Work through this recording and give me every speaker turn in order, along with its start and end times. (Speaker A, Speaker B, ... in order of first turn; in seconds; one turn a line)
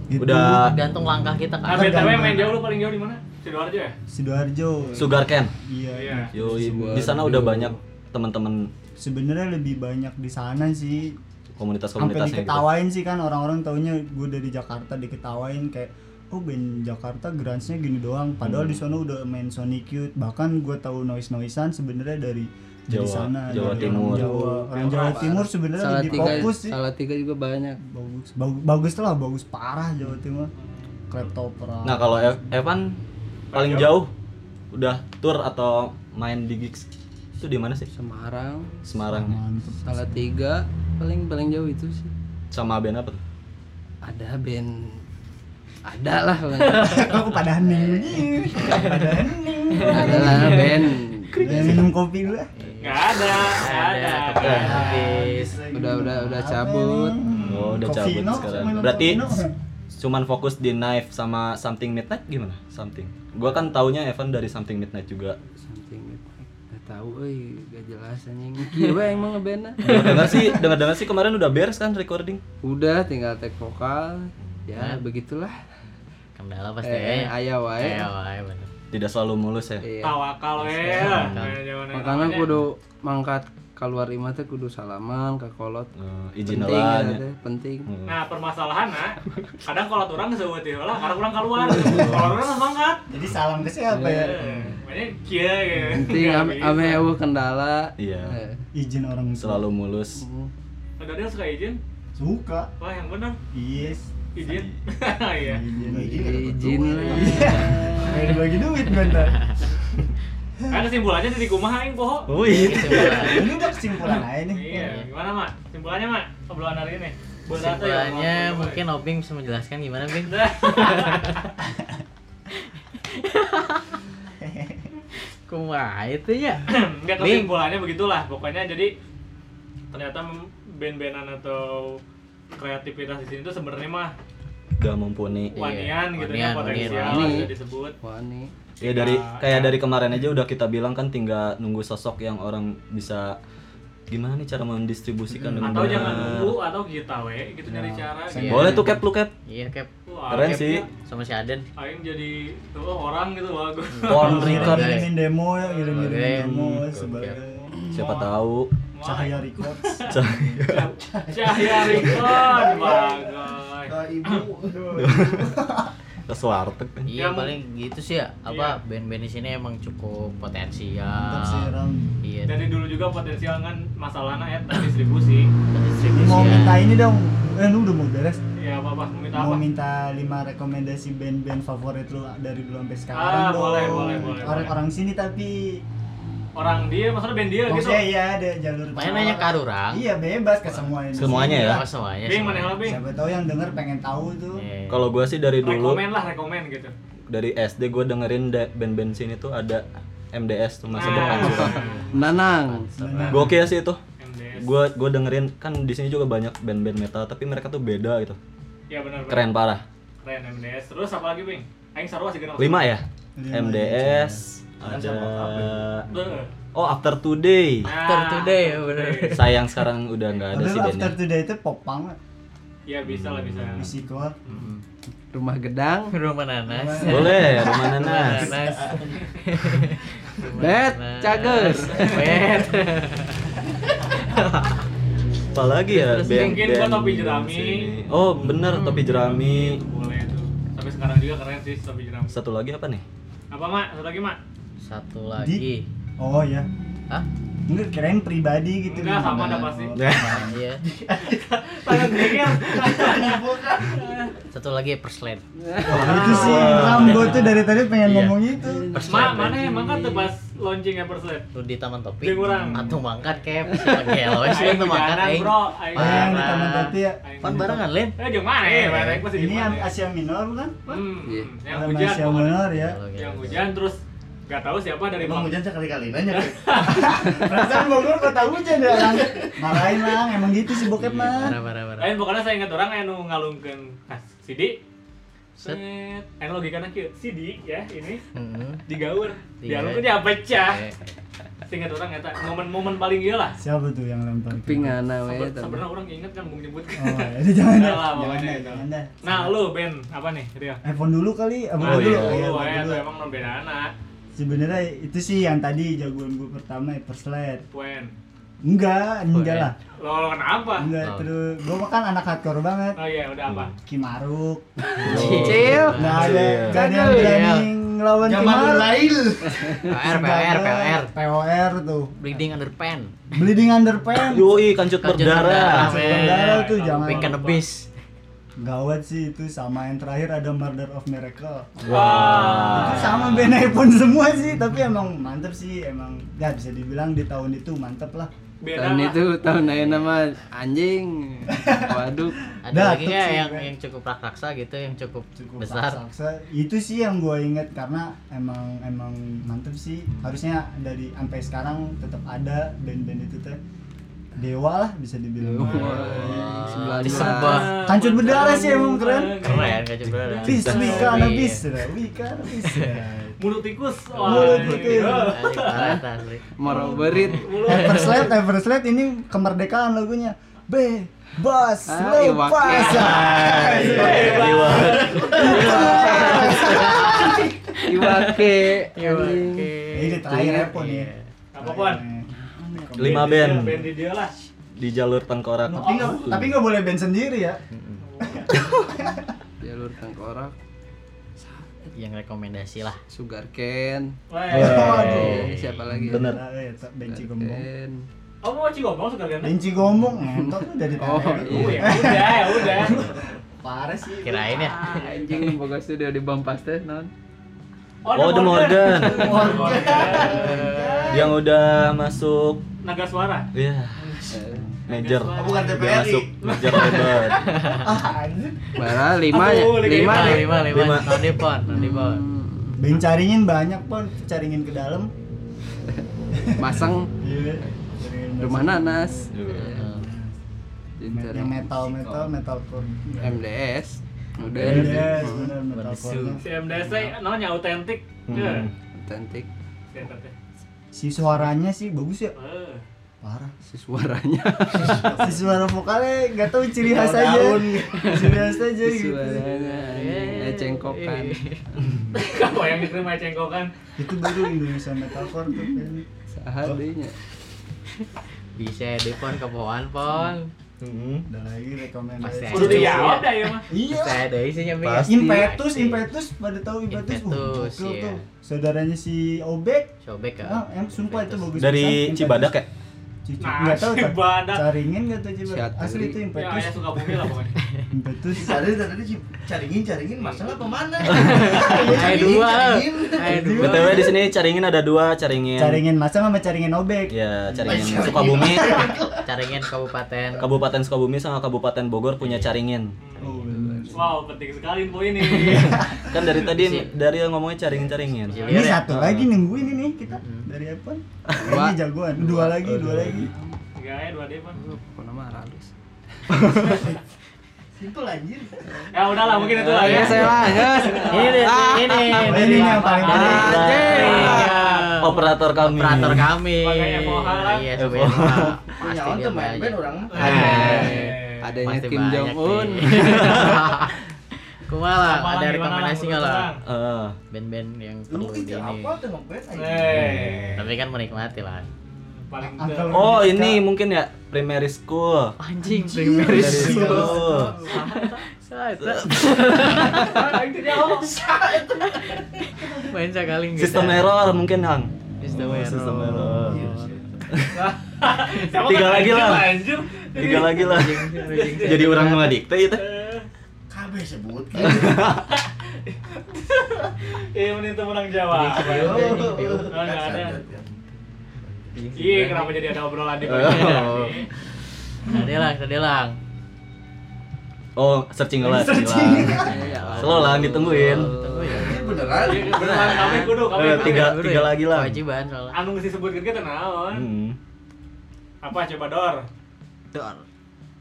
Speaker A: 0.1-0.7
Speaker B: 0.2-0.7
Speaker C: 0.6-2.3
Speaker D: 1.6-3.9
Speaker A: 1.7-2.6
Speaker A: 4.1-6.3
Speaker B: 5.0-5.5
Speaker D: 5.9-6.3
Speaker B: 6.3-8.7
Speaker E: 6.3-7.8
Speaker A: 9.0-11.2
Speaker B: 11.6-12.7
Speaker A: 12.0-26.8
Speaker B: 18.4-18.8
Speaker B: 22.9-24.3
Speaker E: 23.8-27.8
Speaker D: 24.7-25.4
Speaker A: 27.8-30.5
Speaker A: 31.1-32.1
Speaker B: 31.8-33.0
Speaker D: 33.5-33.9
Speaker B: 33.5-34.1
Speaker B: 34.7-36.9
Speaker B: 37.4-37.9
Speaker E: 37.9-38.7
Speaker B: 38.9-39.4
Speaker A: 39.1-40.2
Speaker E: 39.8-42.1
Speaker B: 42.5-43.2
Speaker E: 44.0-45.0
Speaker E: 45.9-47.1
Speaker A: 46.8-52.5
Speaker C: 47.6-49.1
Speaker C: 49.8-50.6
Speaker E: 49.8-51.8
Speaker B: 51.3-51.9
Speaker C: 52.5-55.6
Speaker D: 52.8-55.1
Speaker B: 54.4-54.8
Speaker A: 54.5-59.5
Speaker E: 55.7-57.2
Speaker D: 57.3-57.6
Speaker B: 57.5-59.4
Speaker B: 59.9-65.4
Speaker E: 65.6-70.3
Speaker B: 69.8-72.4
Speaker C: 69.9-70.3
Speaker E: 72.6-75.6
Speaker C: 74.8-75.0
Speaker C: 76.3-78.7
Speaker E: 76.8-78.1
Speaker B: 78.9-79.8
Speaker E: 79.8-80.2
Speaker D: 80.0-82.5
Speaker C: 80.6-81.6
Speaker B: 81.0-81.5
Speaker E: 81.9-85.9
Speaker B: 86.0-87.2
Speaker E: 86.5-87.9
Speaker B: 87.9-88.2
Speaker D: 88.0-93.0
Speaker E: 91.7-92.2
Speaker B: 91.8-92.3
Speaker A: 93.1-94.5
Speaker E: 93.9-94.3
Speaker D: 94.0-97.1
Speaker E: 95.9-98.6
Speaker B: 98.0-98.4
Speaker A: 98.7-99.7
Speaker B: 99.4-100.2
Speaker E: 100.1-100.5
Speaker D: 101.0-101.8
Speaker A: 102.2-102.7
Speaker D: 102.8-103.4
Speaker A: 103.5-104.1
Speaker D: 104.3-105.6
Speaker B: 104.4-104.7
Speaker A: 105.4-106.4
Speaker E: 105.8-108.1
Speaker F: 105.8-107.8
Speaker A: 107.0-109.5
Speaker C: 109.0-109.6
Speaker D: 110.7-112.3
Speaker B: 112.3-113.4
Speaker C: 112.4-113.5
Speaker A: 112.9-114.9
Speaker D: 114.5-118.8
Speaker C: 114.7-115.1
Speaker C: 117.5-121.5
Speaker D: 120.2-121.4
Speaker C: 122.5-124.0
Speaker A: 124.4-124.8
Speaker C: 125.2-126.6
Speaker D: 126.7-128.9
Speaker C: 127.2-127.5
Speaker D: 129.9-132.0
Speaker D: 132.5-134.1
Speaker B: 134.8-135.6
Speaker C: 135.5-137.5
Speaker D: 135.5-137.9
Speaker E: 136.7-138.5
Speaker D: 138.8-139.8
Speaker B: 138.8-143.3
Speaker B: 144.1-146.6
Speaker D: 145.6-148.7
Speaker C: 145.6-145.9
Speaker A: 147.7-148.9
Speaker C: 148.3-151.7
Speaker B: 148.4-149.3
Speaker D: 150.1-150.8
Speaker B: 150.3-150.8
Speaker D: 151.8-154.8
Speaker C: 153.9-155.1
Speaker B: 154.0-155.0
Speaker A: 154.2-158.1
Speaker D: 155.7-156.1
Speaker C: 155.9-157.4
Speaker B: 157.9-158.7
Speaker D: 158.9-160.2
Speaker A: 159.0-163.0
Speaker B: 160.1-160.9
Speaker D: 160.7-164.4
Speaker F: 162.1-165.0
Speaker A: 164.7-165.9
Speaker B: 165.0-165.5
Speaker B: 166.3-167.1
Speaker C: 167.1-171.7
Speaker D: 167.2-167.6
Speaker D: 168.5-168.8
Speaker A: 171.1-172.1
Speaker C: 172.2-172.7
Speaker D: 172.5-175.5
Speaker C: 175.7-176.8
Speaker A: 176.1-178.4
Speaker D: 178.6-179.6
Speaker A: 179.3-185.8
Speaker D: 183.1-184.8
Speaker D: 186.5-188.1
Speaker A: 187.7-191.8
Speaker C: 188.9-190.1
Speaker C: 190.7-192.9
Speaker B: 191.1-191.8
Speaker D: 192.2-193.0
Speaker A: 192.8-194.6
Speaker C: 194.5-195.1
Speaker B: 194.9-196.0
Speaker D: 195.6-196.9
Speaker B: 197.3-201.9
Speaker D: 200.9-202.0
Speaker C: 201.3-203.6
Speaker E: 202.1-202.9
Speaker A: 203.0-203.6
Speaker B: 203.2-204.0
Speaker D: 204.2-204.7
Speaker B: 204.6-208.4
Speaker D: 208.9-209.4
Speaker B: 209.3-209.8
Speaker D: 210.2-212.9
Speaker B: 212.6-216.1
Speaker A: 213.4-214.4
Speaker F: 214.9-216.2
Speaker D: 216.1-216.5
Speaker B: 216.7-217.9
Speaker D: 217.8-219.4
Speaker C: 217.9-219.6
Speaker B: 219.3-221.2
Speaker A: 220.5-222.2
Speaker D: 222.9-223.9
Speaker B: 223.0-223.9
Speaker A: 223.8-224.4
Speaker C: 224.5-224.8
Speaker E: 225.3-226.1
Speaker C: 226.1-233.5
Speaker A: 226.7-227.5
Speaker B: 227.0-228.5
Speaker F: 228.3-229.2
Speaker A: 228.4-228.8
Speaker E: 230.6-232.4
Speaker D: 231.9-232.4
Speaker C: 234.1-234.8
Speaker B: 235.5-239.8
Speaker C: 235.9-236.7
Speaker D: 236.1-237.9
Speaker C: 238.6-239.0
Speaker D: 238.8-242.3
Speaker B: 242.3-243.0
Speaker D: 243.5-244.4
Speaker C: 244.8-245.8
Speaker A: 245.4-245.7
Speaker A: 246.2-246.7
Speaker A: 247.7-250.6
Speaker D: 248.9-249.9
Speaker B: 249.9-250.4
Speaker C: 250.4-250.8
Speaker D: 251.2-254.3
Speaker F: 252.8-254.2
Speaker C: 254.5-258.3
Speaker E: 255.6-256.0
Speaker B: 255.8-257.4
Speaker A: 255.9-259.1
Speaker D: 256.3-257.5
Speaker E: 258.6-260.3
Speaker D: 259.0-261.5
Speaker C: 261.5-269.2
Speaker D: 262.2-262.9
Speaker E: 263.7-264.2
Speaker D: 264.3-269.9
Speaker A: 265.9-267.2
Speaker A: 269.3-271.0
Speaker D: 270.9-275.6
Speaker A: 271.7-273.0
Speaker C: 272.7-273.7
Speaker F: 275.2-277.7
Speaker D: 276.3-277.2
Speaker A: 276.8-281.5
Speaker F: 278.7-279.6
Speaker C: 280.9-282.2
Speaker D: 282.0-284.8
Speaker D: 285.6-288.2
Speaker C: 288.3-288.8
Speaker D: 288.9-290.8
Speaker C: 289.6-291.0
Speaker D: 291.7-293.6
Speaker A: 293.6-295.0
Speaker E: 294.5-295.8
Speaker D: 295.3-300.8
Speaker A: 297.0-299.3
Speaker A: 300.8-303.1
Speaker D: 301.8-303.9
Speaker B: 301.8-302.4
Speaker A: 304.3-307.6
Speaker D: 307.7-308.1
Speaker A: 308.6-309.8
Speaker D: 310.0-310.9
Speaker A: 310.8-313.0
Speaker C: 311.0-311.3
Speaker D: 312.9-313.7
Speaker B: 313.5-313.7
Speaker A: 313.8-319.2
Speaker E: 315.0-316.2
Speaker C: 315.0-317.7
Speaker B: 315.0-316.8
Speaker E: 316.9-317.4
Speaker F: 318.2-319.8
Speaker C: 319.8-321.1
Speaker A: 319.9-322.2
Speaker C: 322.2-323.2
Speaker A: 323.3-324.6
Speaker B: 324.2-326.0
Speaker C: 325.0-327.9
Speaker A: 325.7-327.4
Speaker D: 325.7-327.6
Speaker A: 328.6-331.9
Speaker B: 331.8-333.3
Speaker D: 331.9-333.5
Speaker A: 332.7-338.3
Speaker D: 338.6-339.2
Speaker E: 338.7-342.4
Speaker C: 339.6-339.9
Speaker A: 341.5-342.0
Speaker A: 342.6-343.7
Speaker C: 342.6-346.0
Speaker A: 345.4-353.6
Speaker A: 354.4-359.8
Speaker E: 355.4-357.7
Speaker C: 355.8-357.9
Speaker D: 357.0-360.8
Speaker C: 359.4-361.7
Speaker B: 360.4-361.3
Speaker A: 360.4-363.4
Speaker C: 362.5-362.9
Speaker D: 363.4-366.0
Speaker A: 364.1-365.4
Speaker C: 364.3-368.3
Speaker E: 365.7-366.0
Speaker E: 366.5-367.5
Speaker D: 366.6-368.3
Speaker A: 366.7-374.6
Speaker E: 371.9-373.2
Speaker D: 372.7-375.9
Speaker F: 373.0-377.5
Speaker B: 373.2-375.7
Speaker C: 374.1-381.2
Speaker E: 375.4-376.7
Speaker A: 375.4-377.4
Speaker E: 377.8-379.7
Speaker A: 379.9-383.8
Speaker E: 380.3-380.7
Speaker D: 381.5-382.0
Speaker E: 382.3-383.0
Speaker B: 383.0-383.9
Speaker D: 383.0-384.4
Speaker B: 384.8-386.5
Speaker D: 385.7-386.3
Speaker A: 385.7-387.6
Speaker C: 387.7-388.7
Speaker D: 388.0-388.6
Speaker A: 388.2-389.3
Speaker E: 389.6-390.5
Speaker E: 391.4-391.9
Speaker C: 391.9-393.0
Speaker E: 393.1-396.4
Speaker D: 394.3-395.3
Speaker B: 394.5-396.4
Speaker A: 394.5-397.6
Speaker E: 397.1-398.1
Speaker D: 398.4-399.6
Speaker A: 399.4-404.7
Speaker E: 400.3-402.3
Speaker D: 401.3-403.1
Speaker C: 404.2-405.0
Speaker E: 404.8-407.1
Speaker D: 405.0-405.4
Speaker D: 408.0-410.7
Speaker B: 408.1-409.5
Speaker F: 409.1-411.4
Speaker C: 409.2-411.3
Speaker B: 411.1-412.6
Speaker D: 412.8-413.5
Speaker B: 413.5-414.3
Speaker E: 414.3-414.6
Speaker B: 414.9-417.4
Speaker D: 414.9-417.3
Speaker F: 415.3-417.6
Speaker C: 416.8-417.9
Speaker A: 417.7-418.7
Speaker E: 418.7-420.6
Speaker D: 419.3-420.7
Speaker C: 419.9-422.2
Speaker B: 420.7-421.3
Speaker E: 421.7-422.8
Speaker A: 422.8-425.1
Speaker A: 426.3-430.4
Speaker E: 426.6-427.1
Speaker E: 428.4-429.9
Speaker B: 429.3-429.8
Speaker C: 429.8-430.1
Speaker E: 431.0-432.2
Speaker A: 431.1-433.4
Speaker E: 433.2-435.5
Speaker A: 434.5-436.4
Speaker B: 434.6-435.2
Speaker C: 435.7-437.1
Speaker D: 436.4-438.7
Speaker B: 438.3-438.7
Speaker E: 438.9-439.5
Speaker D: 439.9-440.3
Speaker A: 440.9-442.3
Speaker D: 442.4-442.8
Speaker A: 443.2-443.5
Speaker E: 443.6-445.1
Speaker F: 444.7-445.5
Speaker A: 445.2-449.5
Speaker F: 446.8-448.0
Speaker C: 447.9-448.3
Speaker E: 448.0-451.4
Speaker C: 449.6-451.6
Speaker D: 452.1-453.7
Speaker A: 454.0-456.0
Speaker E: 456.3-457.1
Speaker C: 458.0-460.5
Speaker B: 460.8-461.2
Speaker A: 461.3-464.2
Speaker C: 462.2-466.0
Speaker D: 462.5-463.7
Speaker B: 464.8-465.1
Speaker A: 465.0-472.5
Speaker C: 466.9-468.2
Speaker C: 470.0-471.6
Speaker B: 471.6-472.7
Speaker A: 473.2-477.0
Speaker D: 473.4-474.7
Speaker E: 475.4-476.2
Speaker D: 476.3-477.5
Speaker C: 477.6-477.9
Speaker A: 477.9-478.7
Speaker F: 478.3-483.7
Speaker C: 481.0-484.1
Speaker A: 482.0-482.4
Speaker A: 483.2-484.2
Speaker B: 483.5-485.8
Speaker A: 485.5-488.4
Speaker B: 487.1-488.9
Speaker F: 487.6-489.6
Speaker C: 489.2-490.5
Speaker B: 490.4-493.0
Speaker C: 492.2-492.5
Speaker D: 493.0-493.3
Speaker A: 493.2-494.1
Speaker E: 493.4-494.0
Speaker D: 493.9-496.1
Speaker C: 495.2-496.9
Speaker A: 495.5-496.0
Speaker B: 496.0-499.3
Speaker C: 498.1-498.8
Speaker D: 498.3-498.8
Speaker A: 498.4-503.3
Speaker C: 500.1-500.5
Speaker E: 501.4-503.6
Speaker B: 502.6-503.3
Speaker D: 503.8-504.6
Speaker E: 504.5-506.8
Speaker B: 506.3-506.9
Speaker F: 507.8-508.9
Speaker D: 508.9-511.5
Speaker C: 509.3-524.0
Speaker E: 509.5-512.4
Speaker D: 512.1-515.3
Speaker A: 512.2-513.7
Speaker E: 513.0-514.5
Speaker B: 513.2-514.4
Speaker B: 515.0-516.3
Speaker D: 516.5-517.7
Speaker B: 517.7-518.6
Speaker F: 518.7-520.9
Speaker D: 520.1-521.4
Speaker E: 520.2-523.5
Speaker B: 523.0-523.6
Speaker C: 524.6-526.5
Speaker D: 525.0-526.6
Speaker B: 526.6-527.2
Speaker C: 527.3-529.0
Speaker F: 528.1-530.7
Speaker D: 529.5-530.6
Speaker B: 529.9-530.6
Speaker C: 530.6-531.7
Speaker D: 531.8-533.1
Speaker A: 532.4-533.6
Speaker B: 532.9-535.4
Speaker C: 535.4-540.4
Speaker A: 535.6-537.3
Speaker B: 536.2-537.5
Speaker F: 536.3-537.8
Speaker D: 537.6-538.3
Speaker B: 538.8-539.8
Speaker D: 539.8-541.2
Speaker F: 540.6-542.9
Speaker C: 541.0-541.3
Speaker C: 541.8-544.2
Speaker B: 543.5-546.6
Speaker C: 545.2-546.9
Speaker F: 546.3-547.3
Speaker B: 547.3-547.6
Speaker D: 547.5-552.1
Speaker B: 548.4-549.6
Speaker B: 550.1-552.9
Speaker C: 550.2-552.4
Speaker D: 552.7-553.3
Speaker F: 553.7-555.0
Speaker B: 554.6-555.3
Speaker D: 555.1-560.4
Speaker C: 558.3-559.8
Speaker F: 558.5-560.8
Speaker F: 561.4-562.1
Speaker E: 561.9-562.4
Speaker D: 561.9-564.3
Speaker C: 562.0-562.7
Speaker B: 563.2-564.0
Speaker C: 563.3-564.2
Speaker C: 565.0-566.2
Speaker B: 567.8-571.1
Speaker A: 568.4-569.5
Speaker E: 569.3-571.9
Speaker C: 570.0-575.6
Speaker F: 571.5-572.9
Speaker D: 572.2-574.2
Speaker B: 573.4-575.0
Speaker D: 575.5-577.0
Speaker B: 576.9-577.4
Speaker D: 578.4-579.2
Speaker C: 579.9-580.2